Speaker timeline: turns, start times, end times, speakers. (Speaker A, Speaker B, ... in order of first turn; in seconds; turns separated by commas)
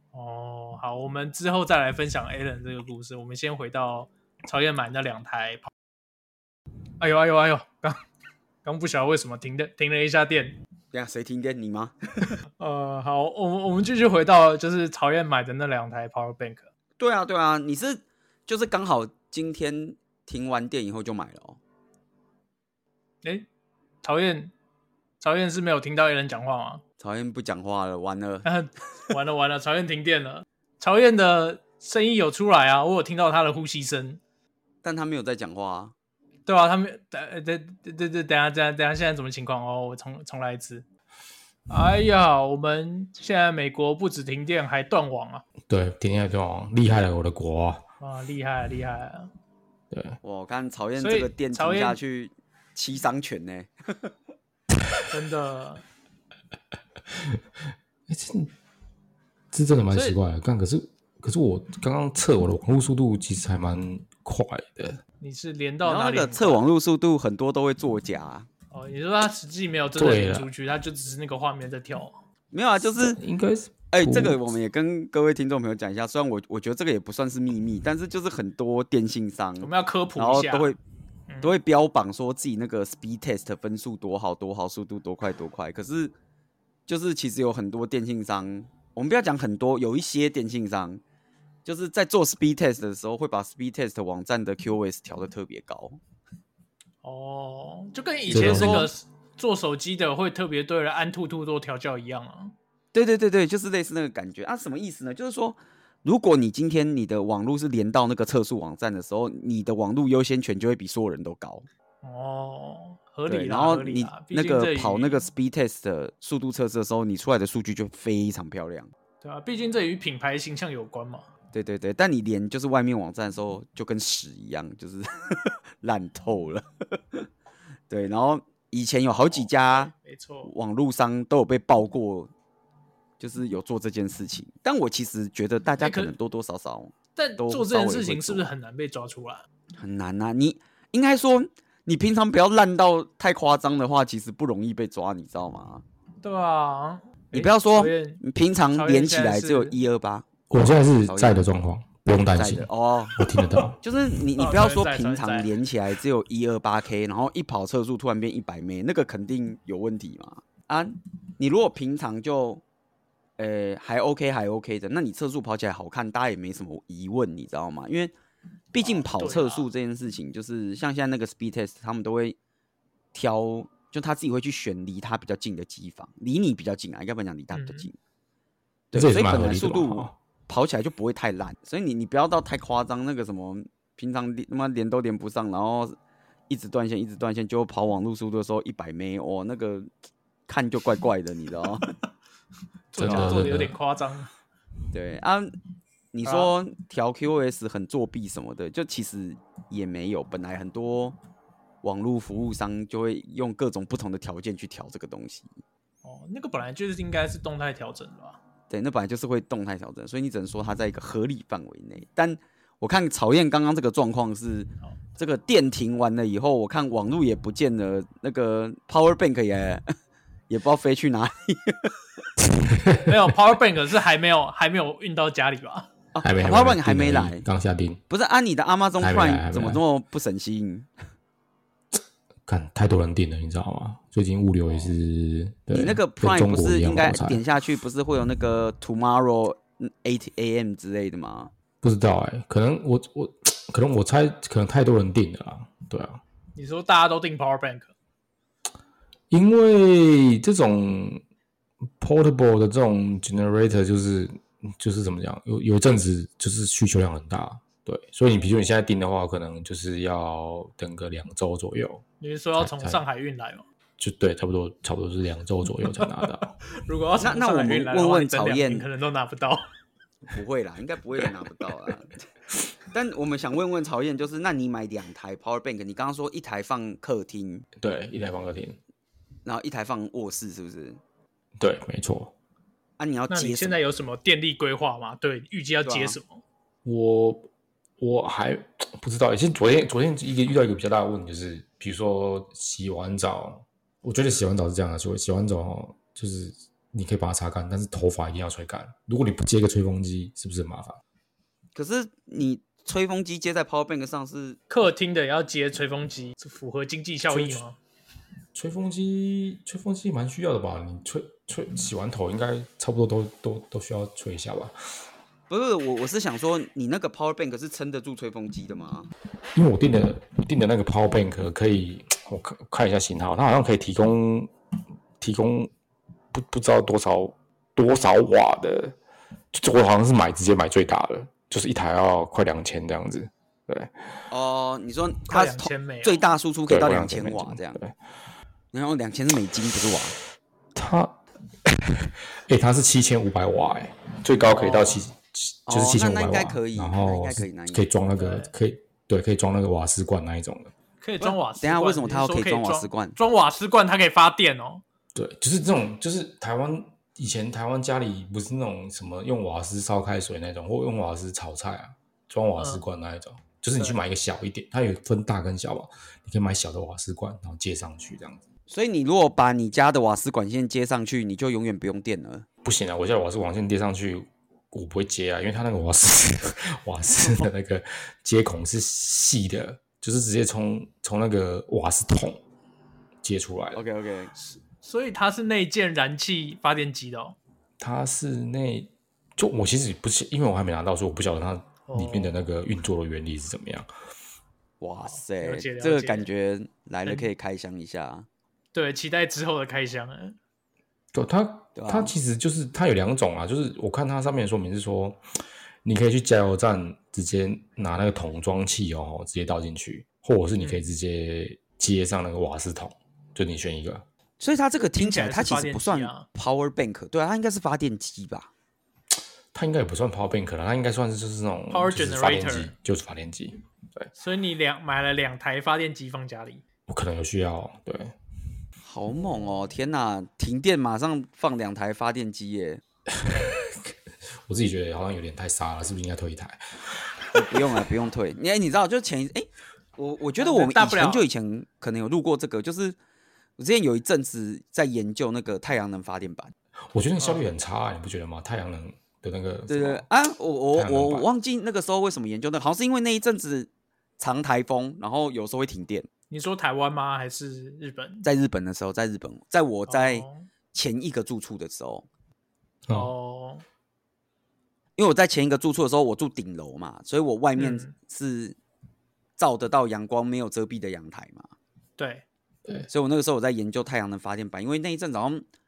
Speaker A: 0.1-5.7, Speaker A: 7.0-8.0, Speaker A: 8.7-10.6, Speaker B: 10.9-12.4, Speaker A: 12.6-16.7, Speaker B: 17.0-21.6, Speaker A: 24.0-24.5, Speaker A: 25.2-26.8, Speaker B: 27.0-28.5, Speaker A: 28.4-34.2, Speaker B: 34.8-35.9, Speaker A: 36.5-40.9, Speaker A: 41.7-45.4, Speaker C: 45.7-47.8, Speaker A: 48.0-49.3, Speaker C: 49.9-50.2, Speaker B: 50.2-54.1, Speaker A: 51.0-52.0, Speaker A: 55.1-55.8, Speaker C: 57.1-57.4, Speaker C: 58.1-58.5, Speaker C: 59.5-65.0, Speaker A: 59.9-60.2, Speaker A: 65.2-66.6, Speaker B: 65.8-68.5, Speaker A: 68.7-72.2, Speaker C: 70.0-70.5, Speaker B: 72.5-73.2, Speaker C: 73.0-74.4, Speaker B: 73.9-80.8, Speaker A: 79.6-80.7, Speaker A: 81.3-81.5, Speaker B: 81.4-86.1, Speaker B: 86.9-91.0, Speaker B: 91.7-96.0, Speaker A: 97.0-102.5, Speaker B: 98.3-98.9, Speaker C: 98.3-98.9, Speaker B: 102.9-111.7, Speaker A: 112.0-115.2, Speaker B: 113.3-118.9, Speaker A: 119.2-121.3, Speaker B: 121.5-127.3, Speaker B: 127.9-129.9, Speaker A: 129.3-130.5, Speaker B: 130.4-132.3, Speaker B: 133.2-138.5, Speaker A: 135.8-136.1, Speaker A: 137.2-139.5, Speaker B: 139.8-145.8, Speaker A: 146.2-148.2, Speaker B: 147.3-150.4, Speaker A: 148.7-149.8, Speaker C: 150.5-153.8, Speaker B: 151.0-151.4, Speaker B: 152.4-153.2, Speaker B: 153.8-162.6, Speaker A: 154.4-155.5, Speaker B: 163.4-168.1, Speaker B: 168.7-172.4, Speaker A: 168.8-169.7, Speaker B: 173.1-177.9, Speaker A: 177.5-177.9, Speaker B: 178.9-186.0, Speaker C: 178.9-180.1, Speaker B: 186.5-189.9, Speaker B: 190.5-191.9, Speaker A: 192.9-194.3, Speaker C: 193.0-193.8, Speaker B: 194.9-195.5, Speaker B: 196.1-201.2, Speaker A: 196.2-196.5, Speaker B: 201.8-205.5, Speaker A: 206.0-208.4, Speaker B: 208.7-219.9, Speaker B: 220.5-221.9, Speaker C: 222.5-223.1, Speaker A: 223.1-225.9, Speaker B: 226.2-227.4, Speaker C: 226.2-228.0, Speaker B: 228.1-230.9, Speaker C: 229.0-229.8, Speaker C: 231.9-237.4, Speaker B: 235.7-241.5, Speaker C: 241.8-246.2, Speaker A: 246.6-247.9, Speaker C: 249.3-251.2, Speaker C: 252.0-262.0, Speaker A: 262.2-263.6, Speaker C: 262.6-263.0, Speaker C: 264.0-266.6, Speaker A: 266.7-269.7, Speaker B: 267.2-268.9, Speaker B: 270.3-272.2, Speaker B: 272.9-277.7, Speaker C: 277.8-278.8, Speaker B: 279.4-281.0, Speaker C: 281.6-282.3, Speaker B: 283.0-283.8, Speaker A: 283.3-286.4, Speaker B: 285.9-286.2, Speaker C: 286.9-287.5, Speaker C: 288.0-301.0, Speaker B: 301.8-304.6, Speaker A: 304.7-307.8, Speaker C: 307.3-307.6, Speaker C: 308.5-314.7, Speaker B: 315.5-319.1, Speaker C: 319.6-324.5, Speaker C: 325.2-325.7, Speaker C: 326.3-329.0, Speaker C: 329.5-333.9, Speaker B: 334.3-337.8, Speaker A: 335.3-336.3, Speaker C: 336.7-337.9, Speaker B: 338.7-340.2, Speaker C: 340.8-350.7, Speaker A: 344.5-345.0, Speaker B: 345.7-347.9, Speaker A: 348.2-348.5, Speaker A: 351.0-354.8, Speaker B: 351.2-353.2, Speaker C: 355.1-368.4, Speaker B: 368.7-372.5, Speaker C: 372.6-382.4, Speaker C: 383.2-383.8, Speaker B: 383.8-384.3, Speaker A: 384.4-387.4, Speaker C: 387.8-393.9, Speaker A: 391.9-392.4, Speaker B: 394.8-398.3, Speaker A: 395.1-396.3, Speaker A: 398.7-400.4, Speaker C: 401.1-405.2, Speaker B: 401.8-402.1, Speaker C: 405.9-414.1, Speaker A: 410.6-410.9, Speaker B: 414.4-418.5, Speaker A: 414.8-416.3, Speaker C: 419.5-424.1, Speaker A: 421.7-422.7, Speaker A: 424.2-426.6, Speaker C: 426.9-428.2, Speaker B: 428.8-432.8, Speaker C: 433.1-437.0, Speaker B: 437.3-443.0, Speaker A: 440.4-441.3, Speaker B: 443.6-446.5, Speaker C: 446.9-450.1, Speaker B: 449.7-456.1, Speaker C: 450.8-451.3, Speaker A: 456.3-458.3, Speaker B: 458.2-462.1, Speaker A: 459.9-460.5, Speaker A: 462.9-463.6, Speaker B: 465.0-468.6, Speaker A: 467.6-467.9, Speaker B: 469.4-471.5, Speaker A: 472.0-472.2, Speaker B: 472.9-475.4